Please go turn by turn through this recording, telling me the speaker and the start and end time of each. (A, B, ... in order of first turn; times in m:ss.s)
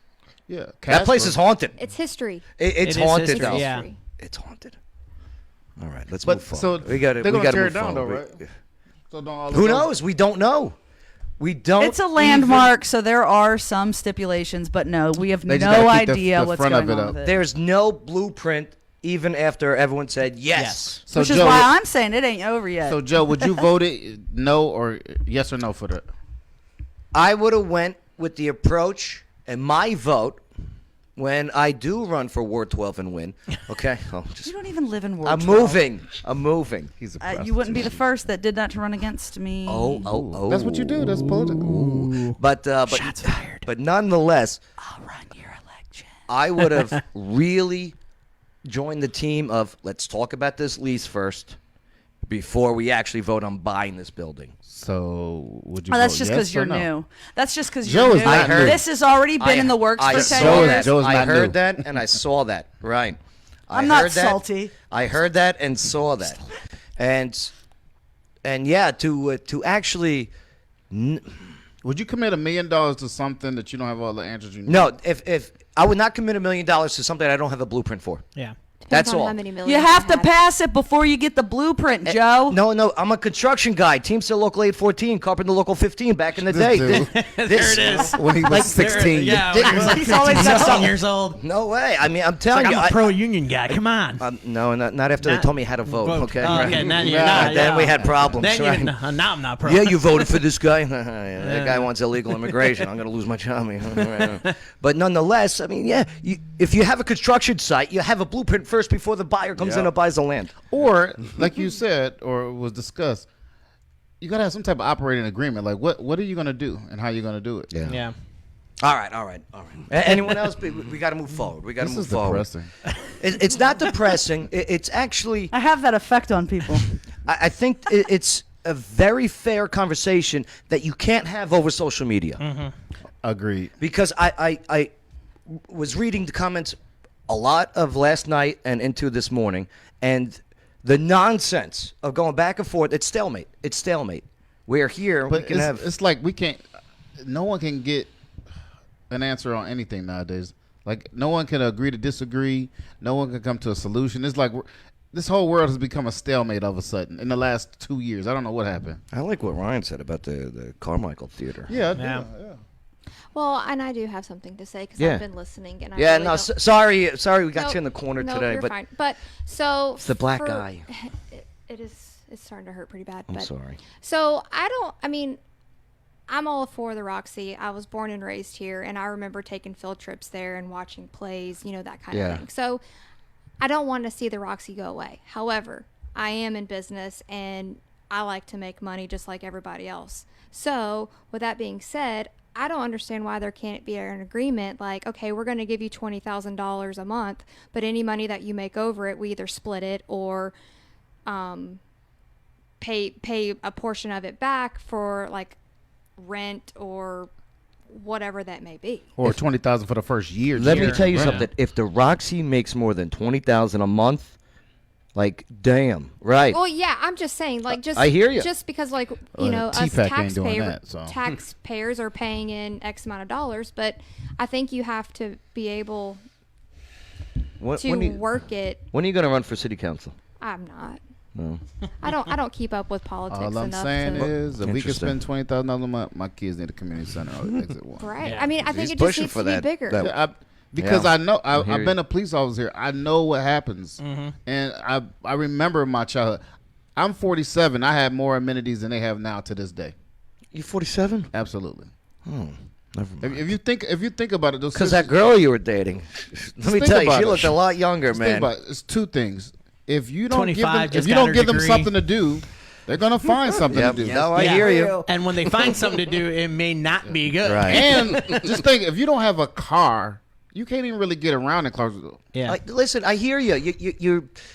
0:00.5-0:01.4 A
0:00.9-0:01.8 B
0:01.8-0:02.5 C
0:02.6-0:04.8 B
0:02.8-0:03.9 D
0:03.3-0:04.0 C
0:05.8-0:08.5 B
0:06.2-0:08.4 A
0:09.1-0:09.9 A
0:09.5-0:10.8 B
0:11.4-0:12.7 B
0:11.8-0:17.4 E
0:15.5-0:17.2 A
0:17.2-0:21.0 B
0:20.5-0:21.0 D
0:21.1-0:21.7 A
0:21.1-0:23.5 E
0:22.8-0:26.0 A
0:27.1-0:30.4 B
0:31.2-0:34.6 B
0:34.4-0:35.8 E
0:35.2-0:36.9 B
0:37.0-0:38.0 A
0:37.2-0:40.0 E
0:39.7-0:40.9 B
0:40.0-0:42.3 A
0:41.0-0:42.3 D
0:42.3-0:44.6 B
0:42.9-0:43.7 E
0:44.8-0:46.1 E
0:46.3-0:48.0 B
0:48.6-0:51.6 B
0:52.3-0:54.5 B
0:54.7-0:56.9 A
0:55.9-1:00.9 E
0:57.8-0:58.8 A
0:58.2-0:58.8 B
0:59.4-1:03.2 B
1:00.1-1:01.8 A
1:03.7-1:06.4 B
1:03.7-1:04.7 E
1:07.0-1:07.5 B
1:08.4-1:10.3 B
1:10.9-1:11.4 B
1:11.8-1:14.9 A
1:14.6-1:18.2 B
1:18.8-1:20.3 C
1:18.9-1:19.4 B
1:19.6-1:22.6 E
1:22.0-1:33.0 B
1:26.4-1:30.1 A
1:26.9-1:31.4 D
1:29.6-1:31.0 E
1:32.5-1:34.2 D
1:34.2-1:38.9 B
1:35.2-1:40.4 D
1:36.4-1:38.4 A
1:39.6-1:50.5 B
1:41.4-1:42.6 D
1:44.0-1:44.4 D
1:50.7-1:53.2 A
1:54.2-1:57.7 A
1:57.7-1:58.0 B
1:57.9-1:58.1 D
1:58.8-2:02.5 B
2:01.8-2:02.7 A
2:03.2-2:05.5 B
2:05.5-2:07.0 E
2:07.2-2:12.4 B
2:12.4-2:12.7 D
2:13.2-2:13.7 A
2:13.8-2:14.9 B
2:15.5-2:16.8 B
2:17.3-2:25.9 B
2:25.3-2:26.6 A
2:27.2-2:28.1 A
2:29.1-2:39.0 A
2:39.1-2:41.8 B
2:41.7-2:42.6 A
2:41.9-2:42.3 D
2:43.3-2:46.5 C
2:45.0-2:45.2 B
2:45.9-2:48.7 B
2:47.5-2:55.4 C
2:50.0-2:50.8 B
2:53.3-2:53.8 B
2:56.3-3:02.8 C
3:02.1-3:02.4 B
3:03.6-3:20.5 C
3:21.3-3:21.8 C
3:22.8-3:25.6 C
3:26.2-3:27.3 C
3:27.9-3:29.1 C
3:29.2-3:31.4 A
3:30.6-3:34.4 B
3:30.7-3:31.5 D
3:35.1-3:36.6 B
3:36.5-3:46.2 C
3:37.7-3:38.5 B
3:39.4-3:41.1 A
3:47.6-3:48.2 B
3:47.8-3:48.8 C
3:48.9-3:50.1 B
3:50.4-3:51.0 C
3:51.4-3:51.6 B
3:52.0-3:54.3 C
3:53.3-3:58.1 A
3:54.2-3:55.2 B
3:58.0-4:00.1 C
3:58.2-3:58.6 D
3:58.5-4:00.1 B
4:00.0-4:06.4 A
4:00.8-4:01.9 B
4:04.0-4:04.3 D
4:07.0-4:09.9 A
4:10.5-4:11.3 B
4:11.3-4:11.9 A
4:12.2-4:13.4 B
4:13.2-4:15.1 A
4:14.7-4:18.5 B
4:16.6-4:17.6 A
4:18.1-4:24.8 A
4:20.3-4:22.0 D
4:23.7-4:25.9 B
4:24.3-4:28.6 D
4:27.1-4:32.2 A
4:27.4-4:27.8 B
4:32.4-4:34.3 B